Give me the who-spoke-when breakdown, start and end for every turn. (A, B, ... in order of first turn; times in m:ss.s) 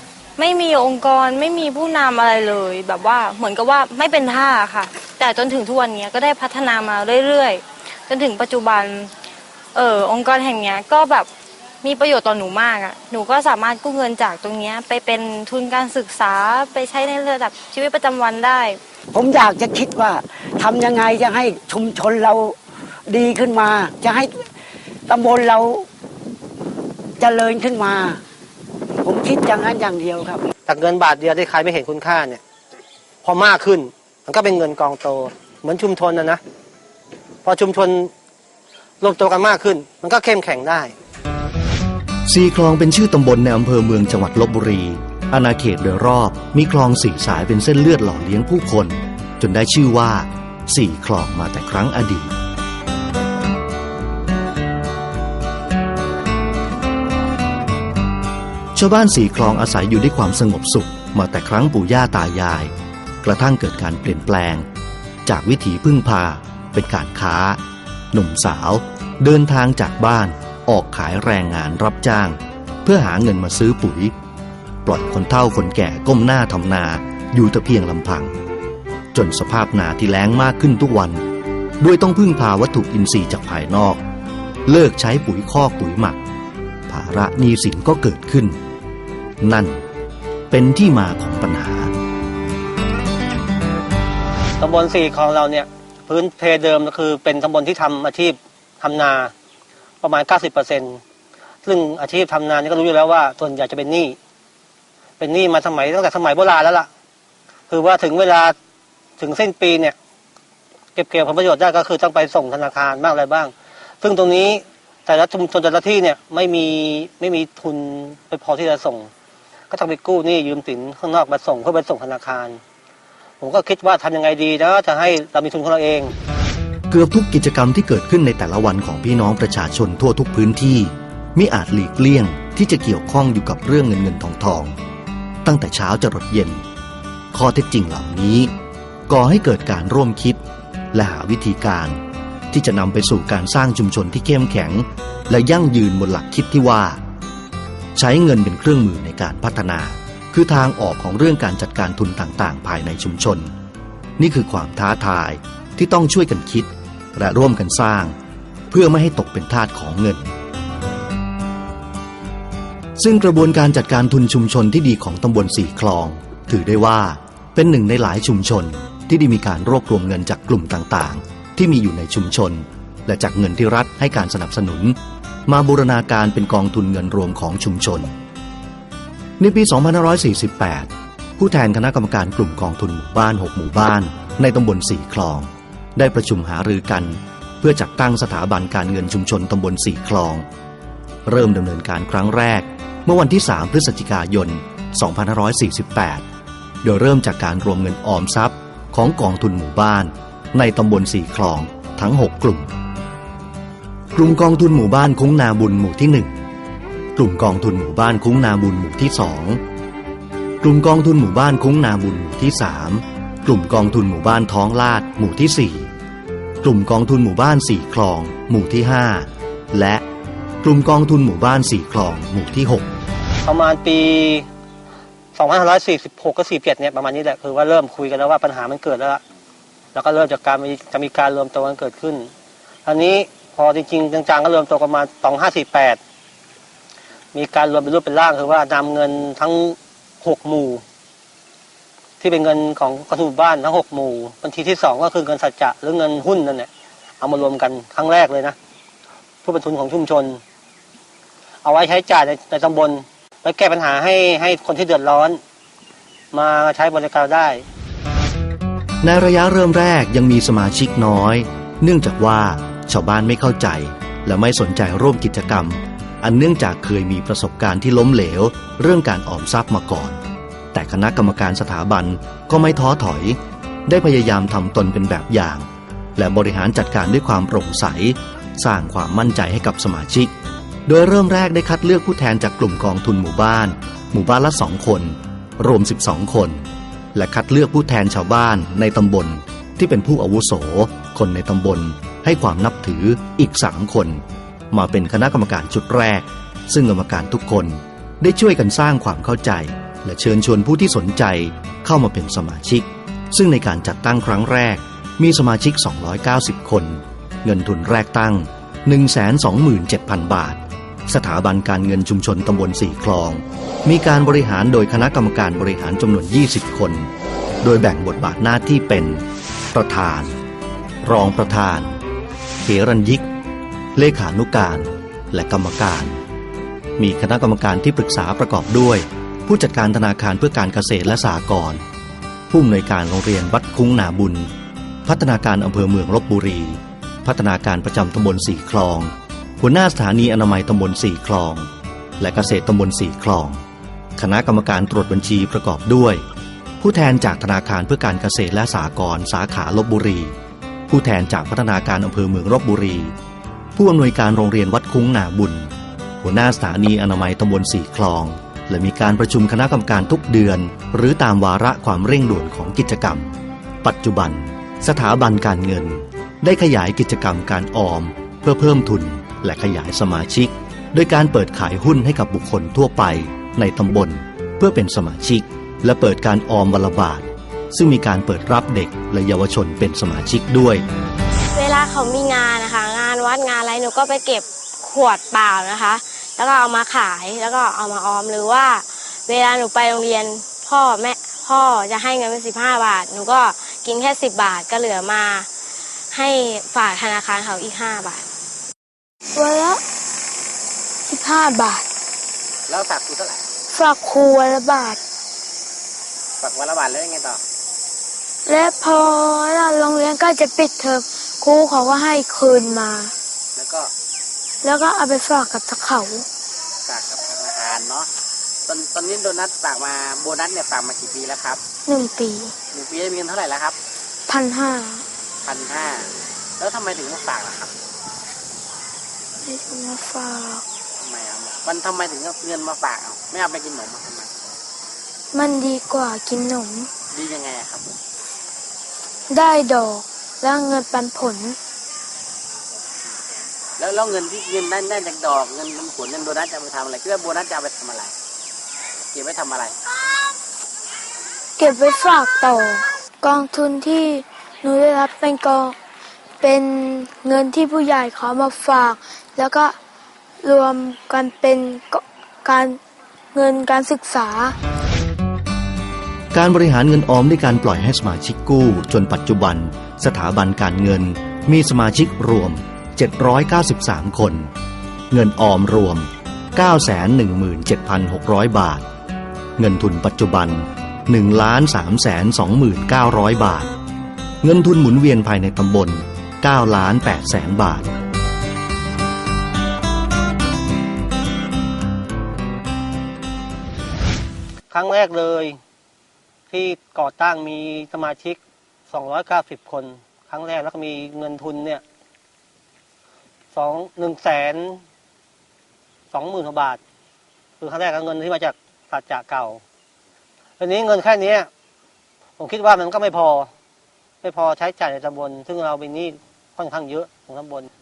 0:00.4-0:09.1 A
0:09.7-0:11.3 A
0:11.8-0:18.8 A
0:19.1-0:22.6 B
0:23.1-0:24.5 B
0:25.1-0:25.9 B
0:27.2-0:28.2 B
0:29.0-0:30.4 B
0:30.7-0:32.4 C
0:33.2-0:36.4 C
0:37.4-0:38.1 C
0:39.0-0:40.9 C
0:42.3-0:52.3 D
0:58.7-1:02.7 D
1:03.2-1:04.6 D
1:05.2-1:07.6 D
1:08.1-1:14.1 D
1:14.8-1:18.3 D
1:19.1-1:21.2 D
1:21.8-1:24.0 D
1:24.6-1:26.2 D
1:26.9-1:28.6 D
1:29.4-1:29.8 D
1:30.5-1:31.9 D
1:34.6-1:39.3 C
1:40.0-1:41.0 C
1:41.6-1:44.2 C
1:45.2-1:46.9 C
1:47.7-1:48.5 C
1:49.2-1:49.9 C
1:51.0-1:59.1 C
1:59.7-2:02.6 C
2:03.4-2:06.1 C
2:06.9-2:14.7 D
2:15.4-2:16.6 D
2:17.3-2:18.5 D
2:19.1-2:20.4 D
2:20.9-2:22.0 D
2:22.5-2:27.0 D
2:28.0-2:33.5 D
2:34.2-2:38.1 D
2:38.7-2:40.3 D
2:43.0-2:58.1 D
2:59.4-3:10.4 D
3:11.2-3:16.2 D
3:16.8-3:22.7 D
3:24.1-3:26.3 D
3:27.2-3:29.6 D
3:30.6-3:35.9 D
3:36.6-3:40.0 D
3:40.6-3:42.9 D
3:43.4-3:44.5 C
3:45.3-3:49.2 C
3:49.9-3:52.3 C
3:52.8-3:56.0 C
3:57.3-4:00.8 C
4:02.2-4:06.7 C
4:07.2-4:08.6 C
4:09.4-4:10.4 C
4:11.6-4:15.4 C
4:16.3-4:17.6 C
4:19.0-4:30.2 D
4:30.7-4:40.3 D
4:40.8-5:17.1 D
5:17.6-5:20.3 D
5:21.0-5:22.0 D
5:22.6-5:23.3 D
5:24.0-5:26.2 D
5:27.0-5:31.8 D
5:32.5-5:34.5 D
5:35.0-5:41.7 D
5:42.2-5:43.6 D
5:44.2-5:46.2 D
5:46.8-5:50.3 D
5:50.9-5:53.1 D
5:53.8-6:20.8 D
6:21.5-6:35.5 E
6:36.1-6:38.2 E
6:39.3-6:39.8 F
6:41.1-6:41.8 F
6:42.7-6:43.4 G
6:43.7-6:45.0 F
6:46.4-6:47.4 G
6:48.4-6:53.1 F
6:53.6-6:53.8 G
6:54.6-6:56.2 F
6:56.9-6:58.1 G
6:58.7-7:01.6 G
7:01.9-7:02.5 F
7:02.8-7:03.7 G
7:04.3-7:05.0 F
7:05.4-7:06.0 G
7:06.6-7:07.7 G
7:09.4-7:10.6 F
7:11.0-7:14.3 G
7:15.3-7:16.9 F
7:17.2-7:17.9 G
7:19.3-7:21.6 F
7:23.8-7:28.1 G
7:29.1-7:29.7 G
7:31.6-7:35.8 F
7:36.4-7:39.8 F
7:40.4-7:42.8 F
7:43.3-7:44.5 F
7:46.3-7:54.5 D
7:55.1-7:58.8 D
7:59.6-8:03.7 D
8:04.4-8:07.9 D
8:14.7-8:15.6 C
8:16.5-8:21.8 C
8:23.5-8:24.8 C
8:26.1-8:26.8 C
8:27.6-8:29.6 C
8:30.6-8:31.5 C
8:32.4-8:33.5 C
8:34.2-8:37.7 C